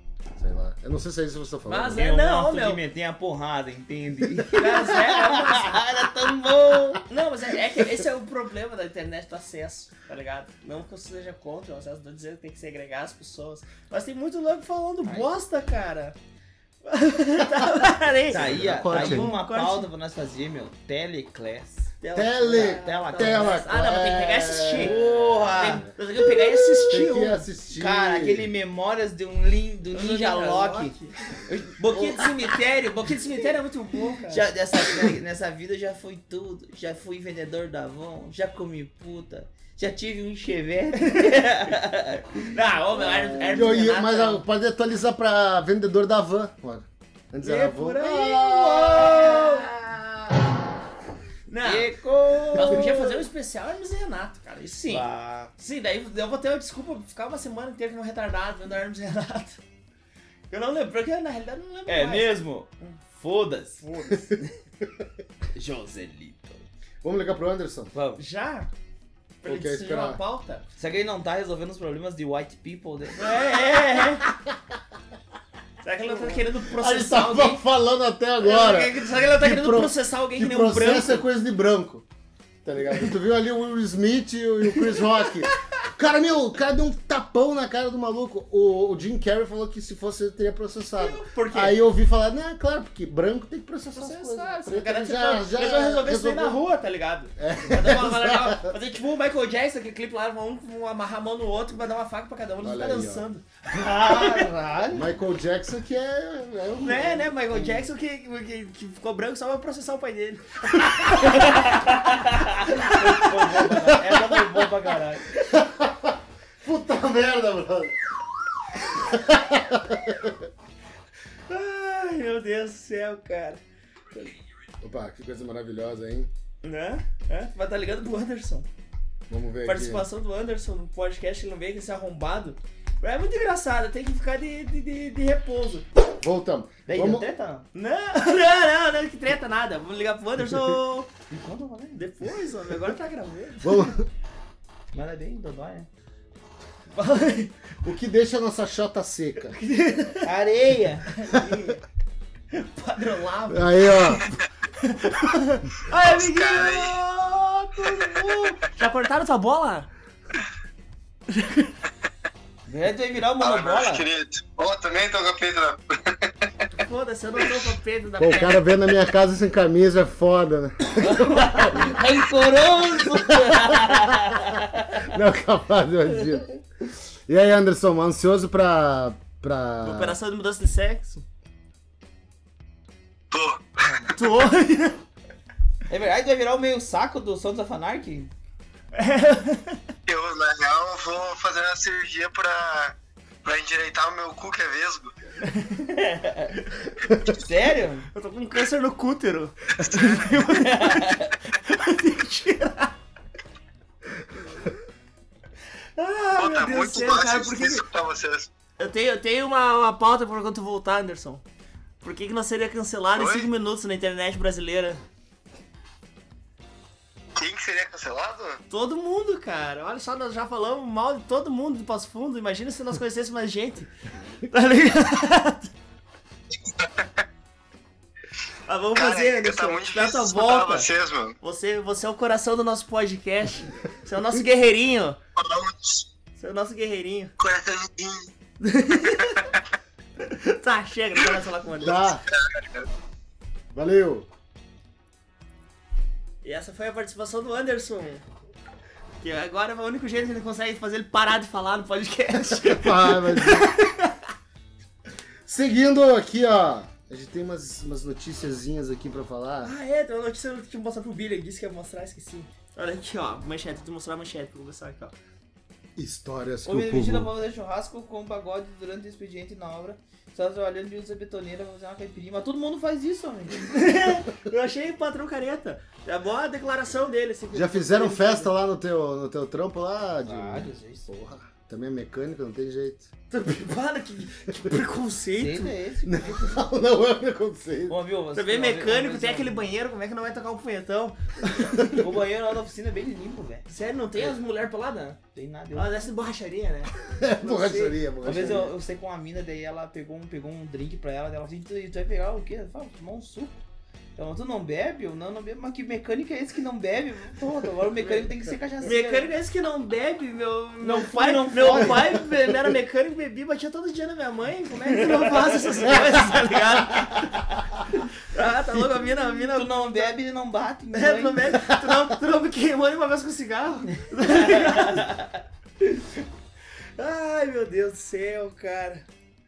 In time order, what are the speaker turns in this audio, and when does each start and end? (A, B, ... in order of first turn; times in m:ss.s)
0:00.4-0:02.0 A
0:01.7-0:02.8 B
0:02.0-0:07.0 C
0:04.5-0:05.8 B
0:07.1-0:16.2 B
0:16.8-0:19.9 B
0:18.3-0:21.9 C
0:18.3-0:19.4 A
0:22.0-0:27.5 B
0:22.1-0:28.5 A
0:22.5-0:23.6 C
0:24.8-0:25.9 C
0:27.7-0:30.9 C
0:29.9-0:31.2 B
0:31.4-0:32.3 C
0:31.8-0:34.5 B
0:34.3-0:43.6 C
0:41.1-0:41.5 B
0:42.5-0:44.4 B
0:43.0-0:49.4 A
0:47.4-0:49.8 B
0:49.0-0:49.3 C
0:51.5-0:51.9 B
0:51.6-0:53.2 C
0:52.5-0:55.1 B
0:54.9-0:55.5 C
0:55.6-0:59.6 B
1:00.5-1:03.0 B
1:01.9-1:03.8 C
1:03.8-1:04.3 B
1:05.6-1:06.6 C
1:07.0-1:07.9 A
1:07.9-1:08.2 C
1:08.2-1:08.7 B
1:09.4-1:10.7 B
1:09.4-1:10.2 A
1:10.8-1:13.3 C
1:13.2-1:14.2 B
1:15.8-1:17.6 B
1:16.2-1:22.0 A
1:18.4-1:21.3 B
1:22.6-1:36.6 A
1:24.9-1:25.6 B
1:30.9-1:31.8 B
1:34.0-1:44.5 B
1:37.4-1:38.7 A
1:42.6-1:43.3 A
1:43.7-1:45.1 C
1:44.9-1:47.3 A
1:46.8-1:53.7 B
1:51.4-1:55.2 C
1:53.7-1:54.5 A
1:55.4-1:58.0 A
1:58.9-2:00.4 A
2:01.5-2:03.6 B
2:04.8-2:06.3 A
2:06.6-2:08.7 B
2:09.3-2:10.1 A
2:09.6-2:15.9 B
2:16.2-2:17.2 A
2:16.9-2:17.7 C
2:17.8-2:21.1 B
2:21.3-2:22.0 C
2:22.0-2:23.9 B
2:23.6-2:24.1 A
2:24.9-2:25.9 C
2:26.9-2:27.5 B
2:27.8-2:29.6 A
2:29.5-2:30.3 B
2:30.2-2:31.1 C
2:31.0-2:31.8 B
2:32.5-2:34.2 B
2:33.5-2:34.2 A
2:34.8-2:39.9 B
2:35.9-2:37.0 D
2:38.2-2:38.5 D
2:41.3-2:41.7 B
2:42.7-2:44.0 C
2:43.4-2:46.5 D
2:46.8-2:48.7 B
2:48.2-2:51.9 A
2:51.0-2:55.1 C
2:53.3-2:56.5 A
2:57.3-3:00.2 A
2:59.8-3:01.2 B
3:03.3-3:04.1 D
3:04.0-3:05.0 B
3:05.9-3:08.3 C
3:08.9-3:09.8 B
3:10.1-3:15.1 D
3:15.4-3:16.6 B
3:16.2-3:16.5 C
3:17.4-3:18.1 C
3:18.1-3:22.9 B
3:19.8-3:20.5 D
3:20.4-3:21.3 C
3:26.0-3:27.8 B
3:26.4-3:28.5 D
3:28.8-3:31.4 B
3:32.0-3:35.0 B
3:33.2-3:33.5 D
3:37.4-3:38.6 D
3:38.7-3:43.9 B
3:44.5-3:45.7 B
3:46.6-3:47.2 D
3:48.7-3:50.9 B
3:49.0-3:51.4 D
3:51.4-3:55.2 B
3:55.4-3:56.1 D
3:56.4-3:57.3 B
3:57.4-3:58.3 D
3:58.6-3:59.4 B
3:59.1-3:59.6 D
4:00.2-4:02.1 B
4:01.8-4:02.2 A
4:02.5-4:02.9 D
4:03.7-4:04.3 A
4:06.4-4:08.2 B
4:09.2-4:14.2 B
4:12.4-4:13.7 A
4:15.4-4:19.7 A
4:19.6-4:25.1 B
4:26.0-4:27.3 A
4:26.7-4:33.8 C
4:33.7-4:38.5 B
4:37.5-4:43.1 A
4:40.2-4:41.1 C
4:43.3-4:45.7 B
4:45.4-4:46.5 C
4:46.0-4:48.0 A
4:47.9-4:49.6 C
4:48.4-4:52.0 B
4:52.0-4:53.7 C
4:53.7-4:55.2 B
4:55.3-4:56.0 C
4:55.7-4:58.6 B
4:57.1-4:58.7 A
4:58.2-5:03.6 C
5:04.2-5:09.3 C
5:08.8-5:20.1 B
5:10.8-5:12.2 C
5:19.4-5:21.5 C
5:20.9-5:25.2 B
5:24.2-5:25.3 C
5:27.0-5:29.0 B